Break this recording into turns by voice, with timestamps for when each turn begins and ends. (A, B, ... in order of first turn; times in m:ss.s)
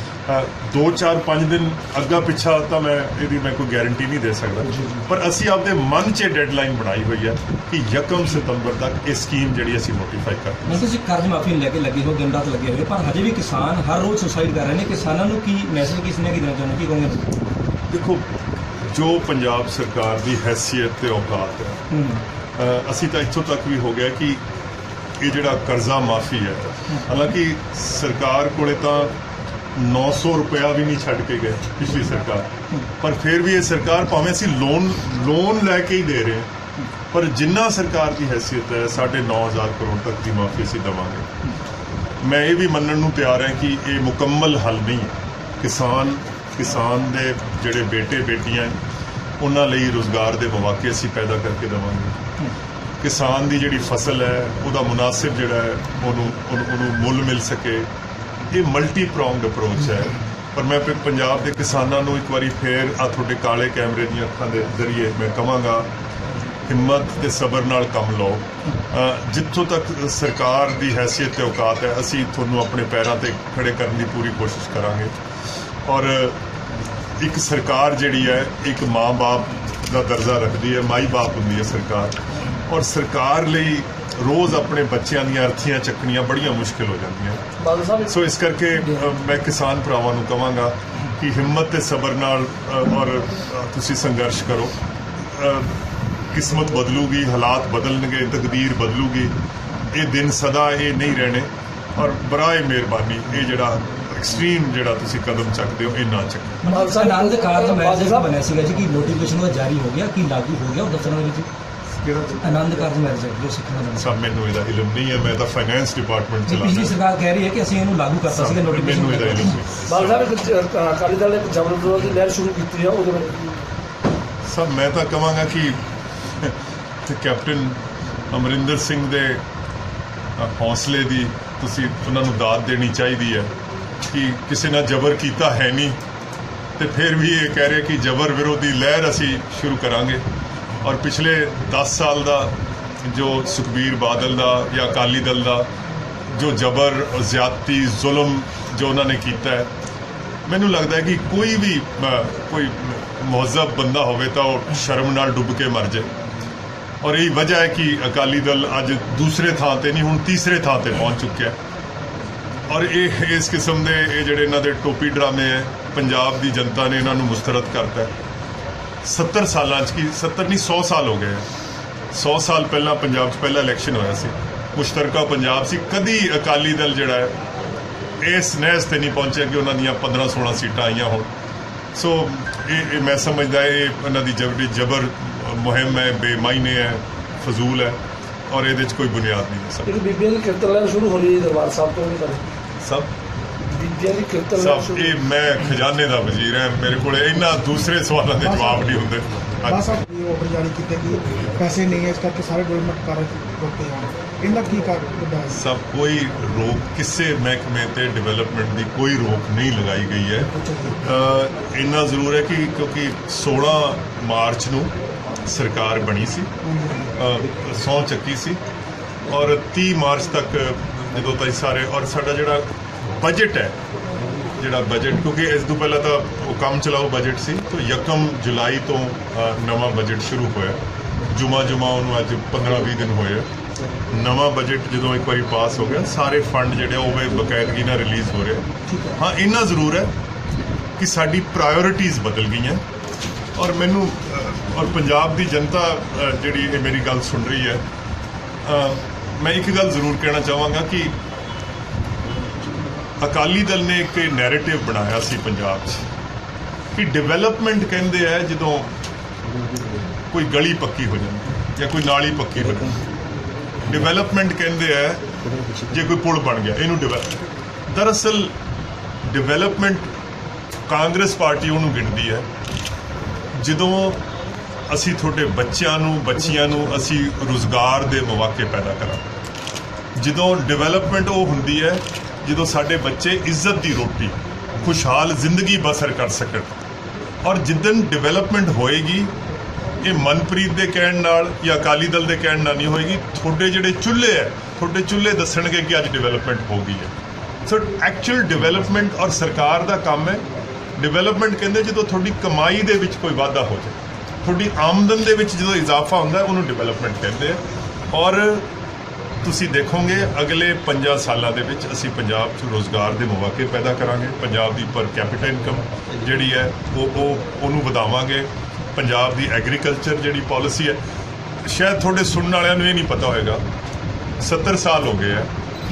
0:00.3-0:10.8 A
0:10.7-0:17.3 B
0:17.9-0:18.3 A
0:18.8-0:21.8 A
0:21.9-0:22.2 B
0:22.6-0:24.4 A
0:25.2-0:29.2 A
0:29.8-0:36.5 A
0:37.1-0:41.3 A
0:42.2-0:48.8 A
0:49.4-0:52.2 A
0:53.0-0:57.9 A
0:58.5-1:05.9 A
1:06.7-1:15.1 A
1:15.9-1:16.4 A
1:17.2-1:27.4 A
1:27.6-1:28.1 C
1:28.1-1:39.4 A
1:39.9-1:46.6 A
1:46.6-1:51.5 B
1:46.7-1:48.4 C
1:52.0-1:52.4 A
1:52.4-1:54.3 B
1:54.0-1:57.0 A
1:56.4-1:59.7 B
1:58.3-2:00.2 A
1:59.8-2:03.5 C
2:04.4-2:05.8 A
2:06.4-2:09.4 A
2:10.4-2:13.5 A
2:14.1-2:16.0 A
2:16.8-2:20.2 A
2:20.8-2:25.7 A
2:26.3-2:29.7 A
2:30.5-2:36.1 A
2:37.0-2:41.6 A
2:42.7-2:48.1 A
2:49.0-2:51.5 A
2:52.1-2:57.4 A
2:58.2-3:01.3 A
3:02.0-3:10.0 A
3:09.9-3:12.4 C
3:12.8-3:13.1 A
3:13.7-3:15.2 C
3:14.6-3:20.0 A
3:18.4-3:18.9 D
3:19.7-3:25.6 D
3:25.5-3:34.9 A
3:30.4-3:31.0 D
3:35.4-3:36.5 A
3:36.6-3:37.1 D
3:37.2-3:38.6 A
3:39.3-3:43.8 A
3:44.6-3:53.5 A
3:54.1-4:00.1 A
4:01.0-4:02.8 A
4:03.6-4:07.8 A
4:08.6-4:11.2 A
4:13.2-4:16.1 A
4:16.9-4:18.9 A
4:20.3-4:23.0 A
4:23.9-4:25.3 A
4:25.6-4:26.0 B
4:25.9-4:28.5 A
4:29.2-4:30.1 A
4:30.9-4:32.5 A
4:33.5-4:34.2 A
4:34.9-4:39.3 A
4:40.2-4:46.8 A
4:47.4-4:49.3 A
4:50.0-4:57.1 A
4:57.6-5:00.5 A
5:01.0-5:08.7 A
5:09.4-5:21.0 A
5:21.6-5:23.6 A
5:24.4-5:25.5 A